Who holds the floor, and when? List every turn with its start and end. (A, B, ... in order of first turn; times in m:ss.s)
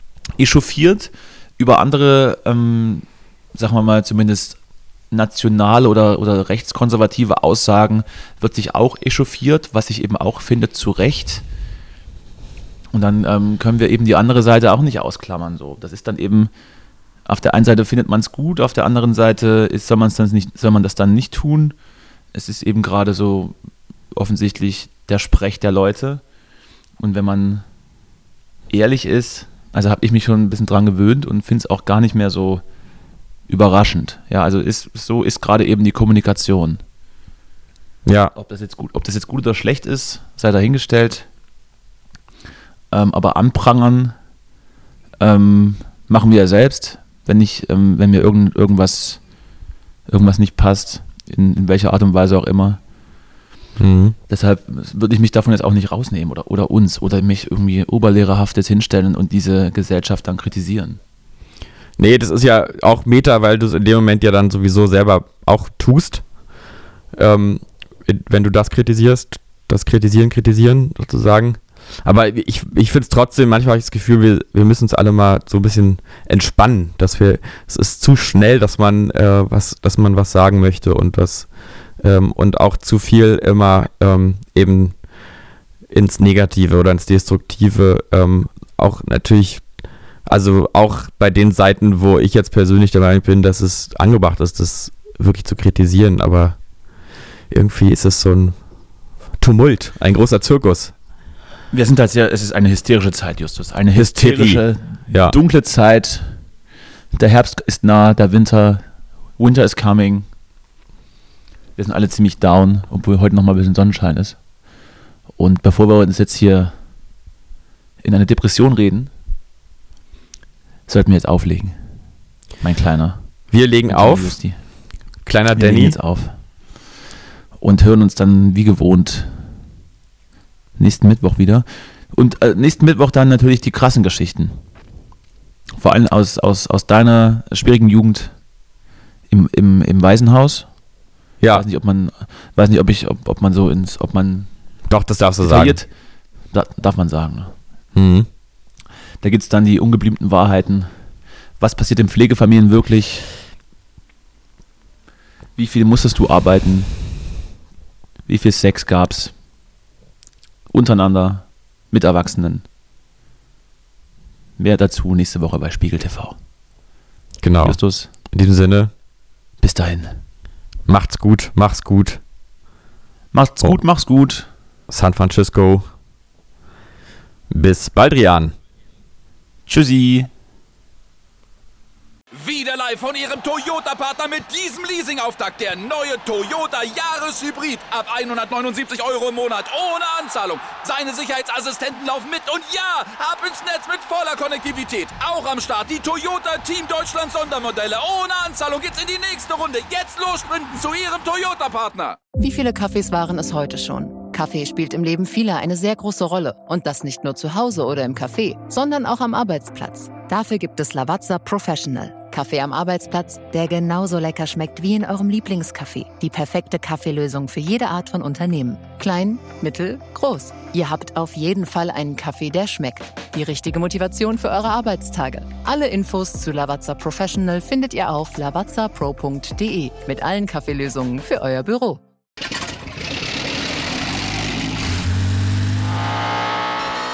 0:00.4-0:04.6 A
0:05.1-0:11.4 A
0:12.9-0:16.5 A
0:17.3-0:21.7 A
0:22.3-0:23.5 A
0:24.1-0:26.2 A
0:27.0-0:27.6 A
0:28.7-0:32.6 A
0:33.5-0:36.8 A
0:38.0-0:38.3 B
0:38.3-0:41.3 A
0:42.9-0:44.1 A
0:45.2-0:49.2 A
0:50.1-0:52.8 A
0:53.8-0:54.2 B
0:54.3-1:01.0 A
1:02.0-1:06.2 B
1:07.1-1:21.5 B
1:22.0-1:24.9 B
1:25.9-1:29.6 B
1:30.2-1:36.6 B
1:37.5-1:38.5 B
1:39.4-1:40.9 B
1:41.7-1:46.4 A
1:43.9-1:45.4 B
1:47.1-1:48.8 A
1:49.4-1:50.3 A
1:51.8-1:54.4 A
1:55.4-1:56.7 A
1:58.0-1:59.1 A
2:00.9-2:01.8 A
2:02.6-2:03.2 A
2:03.5-2:04.4 B
2:03.9-2:04.6 A
2:05.2-2:06.0 B
2:05.5-2:06.3 A
2:07.6-2:09.3 A
2:10.8-2:14.6 A
2:15.8-2:18.3 A
2:19.3-2:20.6 A
2:21.4-2:21.6 B
2:21.5-2:24.5 A
2:24.9-2:25.8 B
2:25.4-2:25.9 A
2:26.5-2:27.5 A
2:27.9-2:28.3 B
2:29.2-2:30.9 A
2:31.6-2:33.3 A
2:35.6-2:36.9 A
2:38.3-2:39.3 A
2:40.7-2:42.6 A
2:44.6-2:46.4 A
2:47.4-2:47.8 B
2:47.6-2:48.1 A
2:48.3-2:48.9 B
2:49.6-2:50.2 A
2:50.8-2:52.2 B
2:53.3-2:54.5 A
2:54.9-2:55.9 B
2:57.5-2:58.5 B
2:59.6-3:00.3 A
3:02.3-3:22.2 C
3:22.4-3:52.0 D